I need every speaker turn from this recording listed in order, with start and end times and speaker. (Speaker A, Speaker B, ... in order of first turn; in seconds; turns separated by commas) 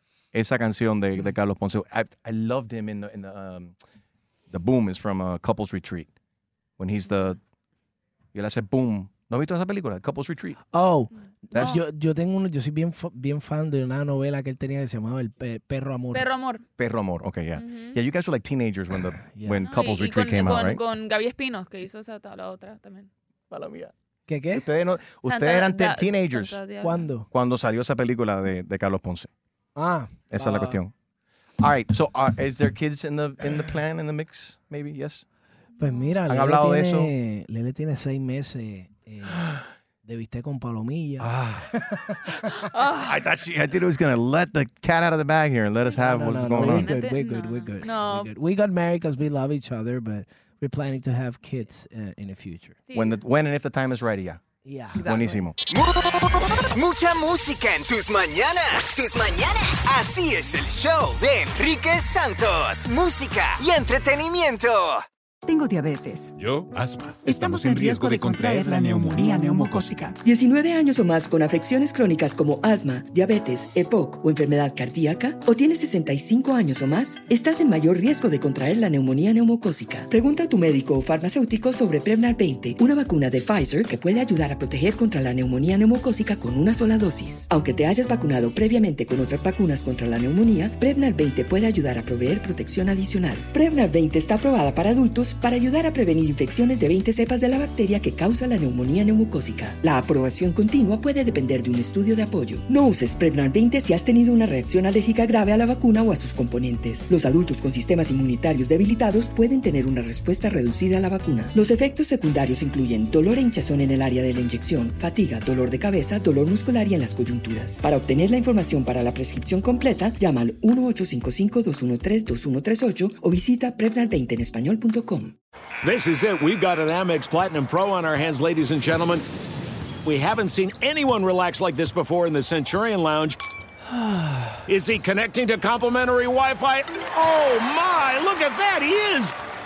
Speaker A: 0.3-3.7, Speaker A: 4.5-6.1, Speaker A: 6.8-7.4, Speaker A: 8.3-10.6, Speaker B: 10.7-16.3, Speaker A: 11.5-11.8, Speaker C: 11.5-11.8, Speaker C: 16.1-16.6, Speaker A: 16.8-20.8, Speaker C: 17.5-18.0, Speaker B: 19.2-19.6, Speaker C: 19.6-23.1, Speaker A: 23.5-23.9, Speaker B: 24.3-24.6, Speaker A: 24.5-26.6, Speaker C: 25.2-27.1, Speaker B: 26.8-27.3, Speaker A: 27.3-29.3, Speaker B: 29.8-30.8, Speaker A: 30.3-30.9, Speaker A: 31.6-35.2, Speaker B: 35.8-39.5, Speaker C: 35.8-36.1, Speaker A: 36.3-37.1, Speaker B: 40.0-42.2, Speaker A: 41.2-41.7, Speaker C: 42.7-43.2, Speaker A: 42.9-47.0, Speaker B: 45.9-52.8, Speaker C: 46.6-48.3, Speaker C: 52.9-53.2, Speaker A: 52.9-54.4, Speaker B: 54.6-55.0, Speaker C: 55.0-55.4, Speaker A: 55.0-55.6, Speaker D: 55.7-65.0, Speaker E: 65.4-70.2, Speaker F: 70.2-125.4, Speaker G: 125.8-129.3, Speaker G: 130.0-133.4, Speaker G: 134.7-139.3